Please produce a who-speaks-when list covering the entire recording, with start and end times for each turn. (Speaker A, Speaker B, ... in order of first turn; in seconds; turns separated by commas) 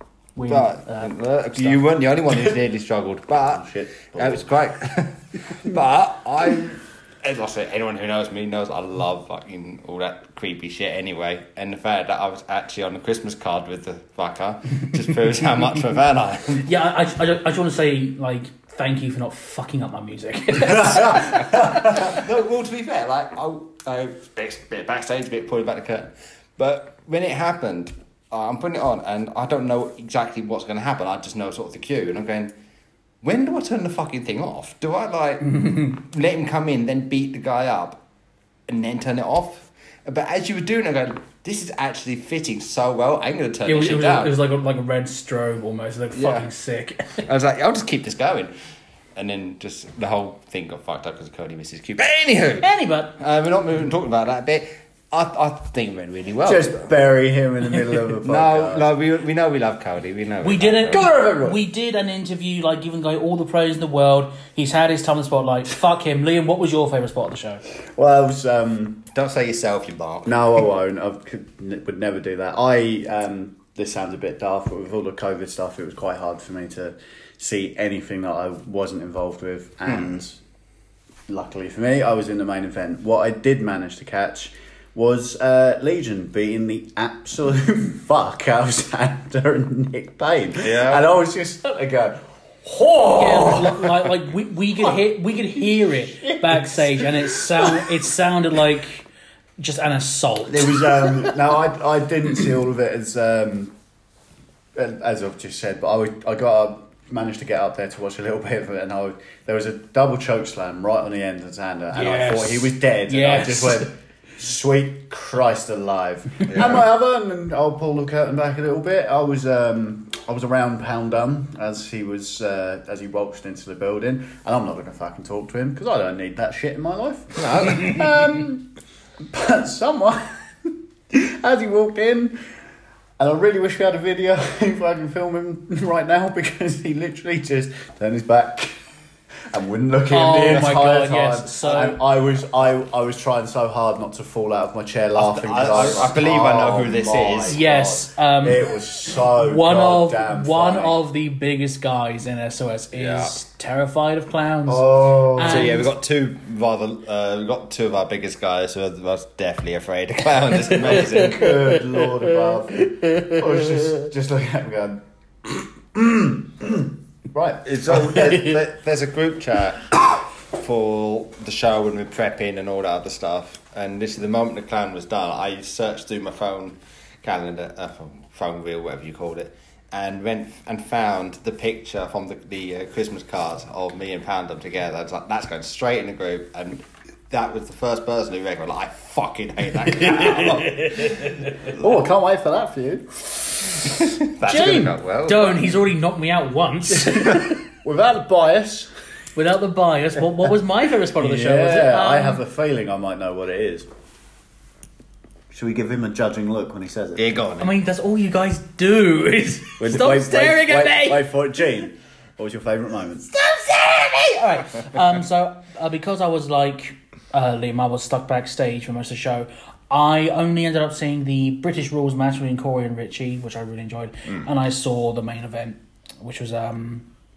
Speaker A: 0.4-1.8, Speaker B: 0.5-16.7, Speaker C: 3.5-4.5, Speaker A: 16.6-22.0, Speaker C: 20.7-22.2, Speaker B: 21.9-32.5, Speaker B: 33.2-38.0, Speaker A: 35.4-36.0, Speaker B: 38.7-44.3, Speaker A: 43.7-47.2, Speaker B: 46.1-46.5, Speaker B: 47.2-48.5, Speaker B: 49.2-56.9, Speaker A: 52.6-53.1, Speaker C: 56.4-58.9, Speaker B: 57.8-61.0, Speaker A: 60.4-67.6, Speaker C: 60.9-61.6, Speaker C: 67.9-69.0, Speaker B: 69.1-70.5, Speaker C: 70.2-80.4, Speaker C: 81.3-94.1, Speaker B: 90.6-91.0, Speaker A: 93.1-99.0, Speaker C: 95.6-98.0, Speaker A: 99.6-101.3, Speaker C: 100.5-103.7, Speaker C: 104.8-128.7, Speaker A: 111.9-113.9, Speaker B: 116.5-116.8, Speaker B: 127.4-128.3, Speaker C: 129.2-132.4, Speaker C: 133.2-138.7, Speaker C: 139.5-151.0, Speaker A: 140.1-142.0, Speaker B: 145.2-147.6, Speaker A: 147.5-148.7, Speaker A: 149.2-155.9, Speaker B: 152.9-153.3, Speaker C: 154.7-155.9, Speaker B: 155.4-161.6, Speaker C: 160.8-168.6, Speaker B: 167.7-191.7, Speaker C: 189.9-191.1, Speaker C: 191.7-193.1, Speaker B: 193.8-195.7, Speaker A: 194.4-197.6, Speaker C: 196.9-198.9, Speaker A: 199.4-202.4, Speaker C: 201.2-203.9, Speaker C: 205.5-207.2, Speaker B: 207.2-207.8, Speaker A: 207.6-211.3, Speaker C: 209.8-213.3, Speaker A: 213.3-227.1